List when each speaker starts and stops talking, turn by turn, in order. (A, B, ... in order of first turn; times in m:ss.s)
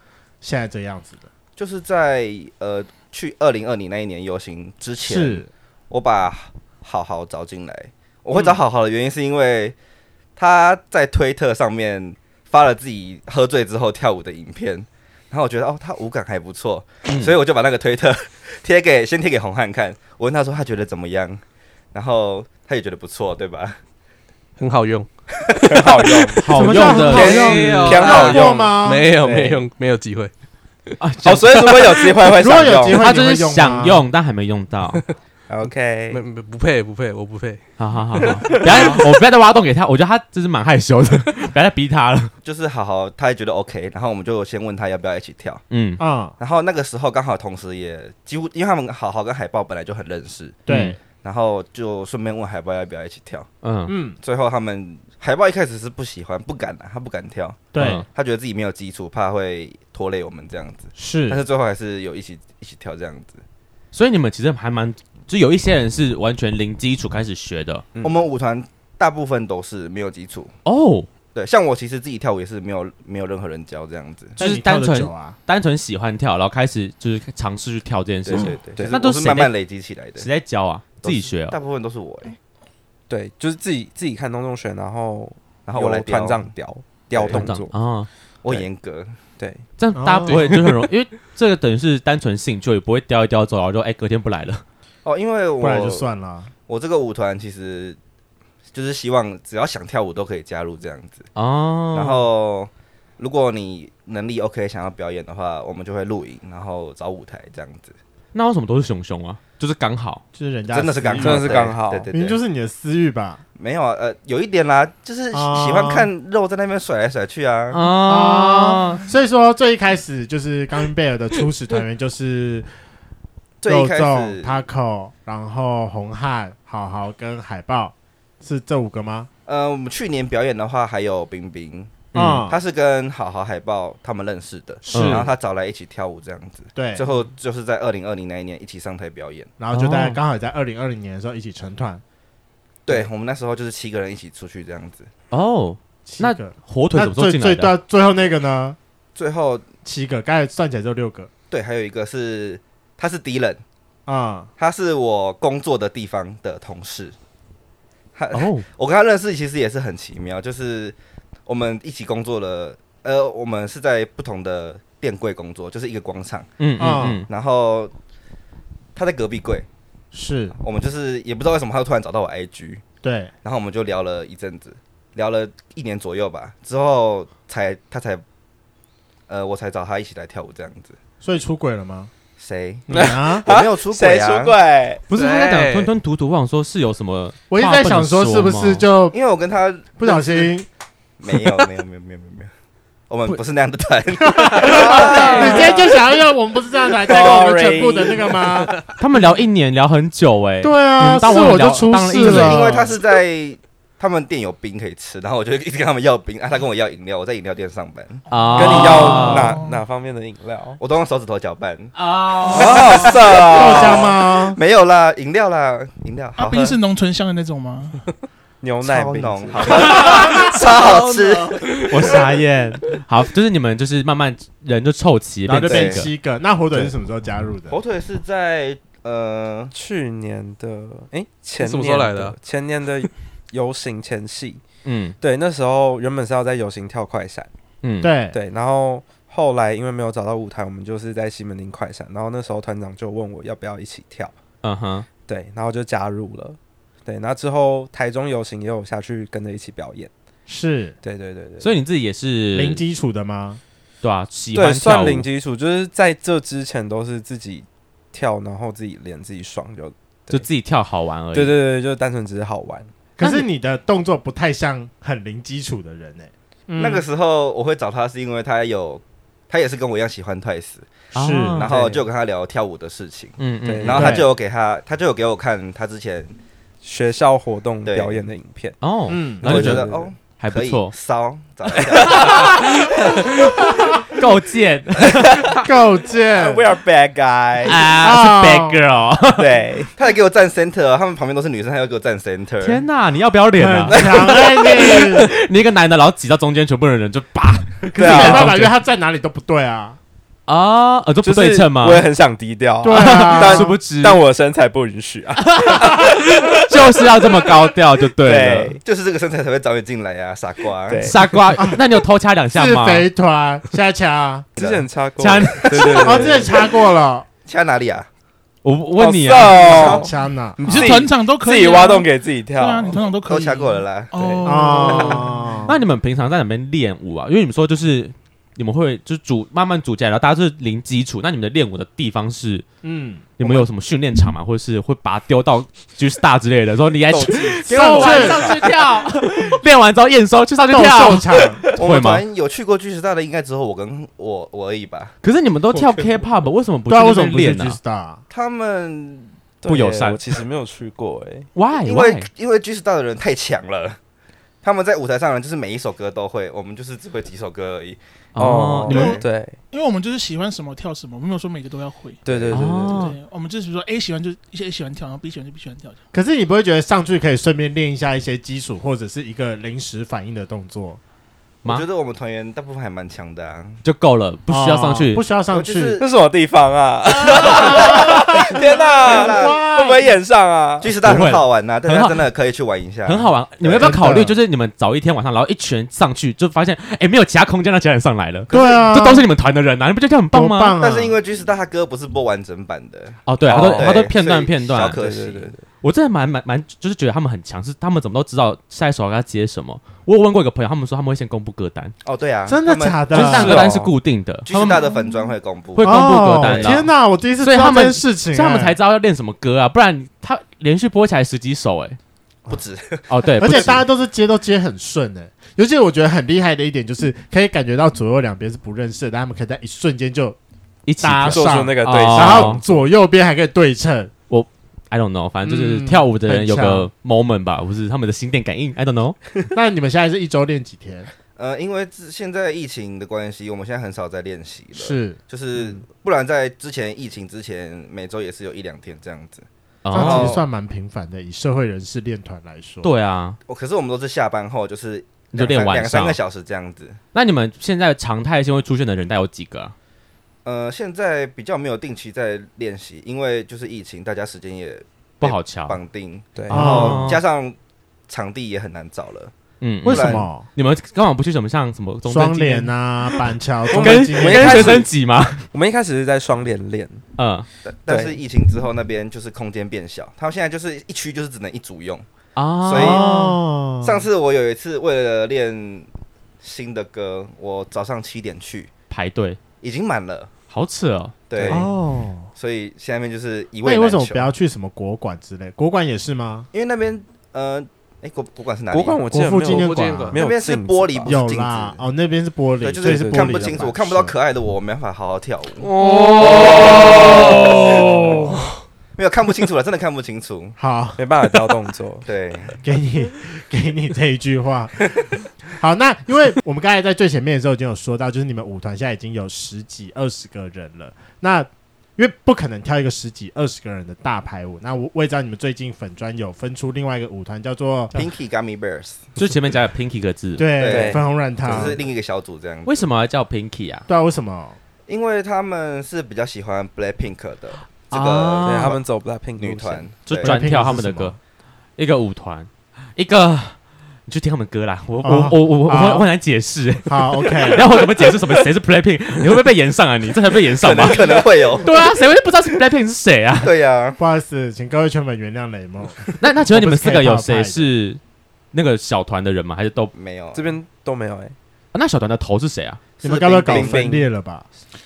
0:00.4-0:01.3 A
0:01.6-0:09.8 B
0:05.0-0:05.5 A
0:10.4-0:21.4 B
0:17.1-0:17.4 C
0:21.9-0:23.8 B
0:24.6-0:25.1 D
0:25.4-0:25.8 B
0:25.7-0:29.6 E
0:25.7-0:30.3 D
0:26.4-0:27.8 C
0:26.5-0:29.1 A
0:31.0-0:32.0 C
0:31.2-0:33.1 E
0:32.4-0:34.0 A
0:32.9-0:35.0 C
0:35.5-0:36.2 E
0:36.1-0:37.6 D
0:37.8-0:42.3 C
0:38.2-0:39.0 D
0:38.2-0:38.5 E
0:42.4-0:45.6 B
0:45.7-0:46.0 C
0:46.0-0:46.4 A
0:46.4-0:53.5 B
0:50.7-0:51.0 A
0:50.7-0:51.0 C
0:53.6-0:53.9 C
0:53.9-0:54.2 A
0:54.2-1:03.4 B
0:57.7-0:58.0 A
0:57.8-0:58.1 C
1:01.0-1:01.4 A
1:03.9-1:07.8 C
1:08.0-1:10.5 B
1:10.6-1:11.1 C
1:11.3-1:14.4 B
1:14.4-1:15.4 A
1:14.4-1:19.5 C
1:18.3-1:20.3 B
1:20.2-1:21.6 C
1:21.0-1:22.4 B
1:23.1-1:27.7 E
1:25.7-1:26.5 B
1:27.1-1:27.4 B
1:27.3-1:28.1 C
1:28.4-1:29.1 B
1:29.8-1:34.6 C
1:30.0-1:30.6 A
1:30.3-1:30.6 D
1:35.0-1:36.1 B
1:35.6-1:36.5 A
1:36.7-1:38.0 B
1:38.7-1:41.3 B
1:41.4-1:42.2 C
1:41.9-1:47.9 B
1:48.3-1:50.2 C
1:50.4-1:53.4 A
1:50.7-1:52.4 B
1:51.2-1:52.1 E
1:53.6-1:57.8 B
1:55.3-1:56.1 A
1:57.7-1:59.0 C
1:58.0-2:02.7 A
2:03.6-2:04.6 B
2:03.7-2:09.3 A
2:09.5-2:19.5 B
2:12.1-2:12.5 C
2:12.1-2:12.6 A
2:14.9-2:15.3 A
2:14.9-2:15.3 C
2:16.8-2:17.1 A
2:19.6-2:22.0 A
2:19.7-2:20.2 C
2:22.9-2:25.1 B
2:25.3-2:27.8 C
2:26.1-2:28.8 A
2:29.2-2:29.7 B
2:29.8-2:31.3 A
2:31.5-2:33.6 B
2:34.1-2:34.5 A
2:34.6-2:37.2 B
2:38.2-2:46.5 B
2:38.3-2:38.6 C
2:46.6-2:47.3 C
2:46.8-2:47.3 A
2:47.3-2:47.9 B
2:49.0-2:49.7 B
2:50.1-2:50.6 A
2:50.6-2:52.8 B
2:53.0-2:53.3 A
2:53.4-2:58.2 B
2:59.3-3:01.0 B
3:01.2-3:02.1 A
3:02.4-3:04.6 B
3:02.9-3:05.0 E
3:02.9-3:03.5 A
3:05.1-3:08.8 C
3:05.1-3:05.8 D
3:07.5-3:09.2 A
3:09.1-3:10.5 B
3:10.0-3:10.7 A
3:11.2-3:12.5 B
3:13.1-3:16.0 B
3:14.2-3:18.8 A
3:15.0-3:15.6 E
3:15.1-3:15.6 C
3:17.0-3:18.7 B
3:17.1-3:17.8 E
3:19.0-3:22.7 C
3:20.6-3:22.9 A
3:22.2-3:28.2 B
3:28.3-3:29.6 C
3:28.5-3:29.8 F
3:28.6-3:30.8 E
3:30.8-3:36.8 B
3:32.0-3:33.3 C
3:32.6-3:33.2 E
3:33.3-3:34.6 A
3:36.4-3:38.0 F
3:38.6-3:40.5 E
3:38.8-3:41.8 B
3:39.9-3:40.5 C
3:41.7-3:46.1 C
3:45.5-3:47.8 A
3:45.6-3:46.1 B
3:47.7-3:49.7 B
3:49.7-3:54.6 E
3:51.6-3:52.4 D
3:54.8-3:55.2 C
3:55.2-3:57.5 E
3:57.8-3:58.1 C
3:58.0-3:58.4 A
3:58.3-4:04.3 E
4:04.6-4:05.1 C
4:05.3-4:10.1 E
4:10.5-4:11.0 A
4:11.0-4:11.7 E
4:11.6-4:12.8 C
4:12.5-4:13.6 A
4:14.0-4:15.3 C
4:14.5-4:20.5 E
4:20.3-4:21.6 C
4:21.3-4:22.9 E
4:23.2-4:27.1 A
4:23.2-4:23.5 C
4:26.8-4:36.4 B
4:31.1-4:31.7 C
4:31.2-4:31.9 A
4:33.4-4:34.2 C
4:33.6-4:34.2 E
4:33.9-4:34.3 A
4:36.8-4:38.8 E
4:37.8-4:38.2 B
4:38.8-4:40.9 C
4:39.1-4:39.5 A
4:39.4-4:40.1 E
4:39.5-4:42.8 B
4:42.0-4:42.6 E
4:42.1-4:42.7 C
4:43.4-4:45.4 C
4:43.7-4:44.0 A
4:45.2-4:45.4 E
4:45.6-4:46.7 A
4:46.3-4:47.8 E
4:47.6-4:49.5 C
4:47.8-4:48.8 A
4:49.4-4:49.9 E
4:50.0-4:52.8 B
4:52.6-4:58.7 C
4:53.6-4:55.3 A
4:58.0-5:00.0 A
4:58.0-4:58.6 E
5:00.5-5:02.0 C
5:01.2-5:07.5 E
5:02.8-5:03.8 A
5:02.9-5:04.2 C
5:05.5-5:08.8 C
5:08.2-5:08.8 E
5:08.8-5:11.1 B
5:10.9-5:11.4 E
5:11.0-5:13.1 C
5:12.5-5:14.5 A
5:14.6-5:14.9 B
5:14.6-5:16.7 E
5:15.2-5:16.3 C
5:15.9-5:17.3 A
5:17.4-5:18.1 B
5:18.6-5:20.0 C
5:19.0-5:23.0 E
5:19.4-5:20.1 B
5:19.6-5:20.9 A
5:20.7-5:25.5 F
5:23.3-5:24.1 B
5:24.2-5:24.7 E
5:24.4-5:25.8 A
5:24.7-5:25.2 B
5:25.7-5:32.7 C
5:32.8-5:33.4 A
5:33.4-5:42.2 C
5:37.2-5:38.6 B
5:37.7-5:38.6 A
5:37.8-5:38.5 E
5:40.7-5:41.7 A
5:41.7-5:45.1 B
5:45.2-5:47.8 C
5:45.7-5:46.1 E
5:46.9-5:48.2 A
5:48.3-5:49.3 B
5:49.6-5:51.5 E
5:49.7-5:50.2 C
5:51.6-5:52.3 C
5:51.8-5:54.0 B
5:54.6-5:58.0 B
5:58.4-5:59.2 C
5:58.4-5:59.6 E
5:58.9-5:59.2 B
5:58.9-6:06.0 F
6:02.2-6:03.1 E
6:02.5-6:03.2 C
6:06.1-6:11.0 A
6:11.6-6:13.8 B
6:13.8-6:15.2 C
6:14.5-6:16.0 A
6:15.5-6:16.1 B
6:16.0-6:20.9 E
6:17.3-6:19.7 B
6:17.4-6:18.6 A
6:19.1-6:20.1 A
6:20.8-6:24.0 B
6:21.0-6:22.2 C
6:23.0-6:30.8 C
6:23.8-6:24.4 A
6:28.5-6:29.3 A
6:30.3-6:31.2 A
6:30.8-6:35.6 B
6:33.3-6:35.0 C
6:33.5-6:34.1 E
6:34.7-6:35.6 E
6:35.8-6:41.9 C
6:42.0-6:43.7 B
6:42.5-6:43.7 A
6:43.1-6:44.9 C
6:43.2-6:43.9 E
6:44.4-6:46.8 B
6:45.8-6:52.0 C
6:45.8-6:48.8 A
6:52.5-6:53.8 B
6:53.1-6:53.9 C
6:53.4-7:00.4 A
7:00.9-7:02.6 C
7:01.0-7:04.1 A
7:01.3-7:02.8 E
7:04.3-7:09.2 C
7:05.4-7:06.9 A
7:09.5-7:11.1 A
7:11.4-7:20.4 B
7:14.7-7:15.8 A
7:19.8-7:20.4 C
7:19.9-7:22.9 A
7:22.8-7:23.4 C
7:23.5-7:27.0 B
7:25.3-7:26.2 C
7:27.1-7:29.7 C
7:30.4-7:37.6 B
7:35.2-7:35.8 C
7:36.4-7:36.7 E
7:36.5-7:37.2 A
7:36.6-7:37.2 C
7:38.1-7:39.3 B
7:39.6-7:45.5 C
7:39.8-7:40.3 B
7:39.8-7:40.5 A
7:42.1-7:44.8 A
7:43.7-7:44.9 E
7:45.5-7:47.0 E
7:47.2-7:47.5 C
7:47.7-7:52.1 B
7:47.9-7:48.2 E
7:52.4-7:53.4 C
7:52.6-7:53.2 B
7:52.7-7:54.0 A
7:53.8-7:55.9 B
7:56.4-7:58.7 B
7:58.9-7:59.4 C
7:59.6-8:00.3 B
8:00.5-8:01.7 C
8:01.3-8:01.7 B
8:01.5-8:02.3 A
8:02.4-8:04.3 B
8:03.6-8:06.5 A
8:06.5-8:09.0 B
8:08.7-8:11.2 E
8:09.1-8:10.2 A
8:09.4-8:10.2 D
8:10.2-8:11.8 B
8:11.1-8:14.1 A
8:12.6-8:15.7 B
8:12.8-8:13.6 E
8:15.6-8:18.3 E
8:17.4-8:18.4 A
8:19.0-8:20.6 B
8:20.6-8:21.5 A
8:21.0-8:22.1 E
8:22.0-8:22.6 B
8:22.6-8:38.1 A
8:37.9-8:39.0 B
8:39.2-8:40.5 C
8:40.4-8:41.8 A
8:40.6-8:42.9 B
8:40.7-8:41.7 E
8:42.6-8:43.9 C
8:43.9-8:44.6 A
8:44.9-8:48.8 B
8:47.9-8:48.8 C
8:48.4-8:49.9 E
8:49.4-8:50.4 B
8:50.1-8:51.2 C
8:50.2-8:51.2 A
8:51.8-9:03.5 C
8:55.0-8:56.1 A
8:56.9-8:57.7 A
9:00.6-9:01.7 B
9:00.8-9:01.2 E
9:03.4-9:04.0 B
9:04.0-9:07.7 A
9:06.2-9:08.0 C
9:08.5-9:09.9 C
9:09.9-9:10.6 B
9:10.3-9:11.4 E
9:11.7-9:12.8 C
9:13.0-9:13.9 B
9:13.0-9:14.5 A
9:13.5-9:14.1 E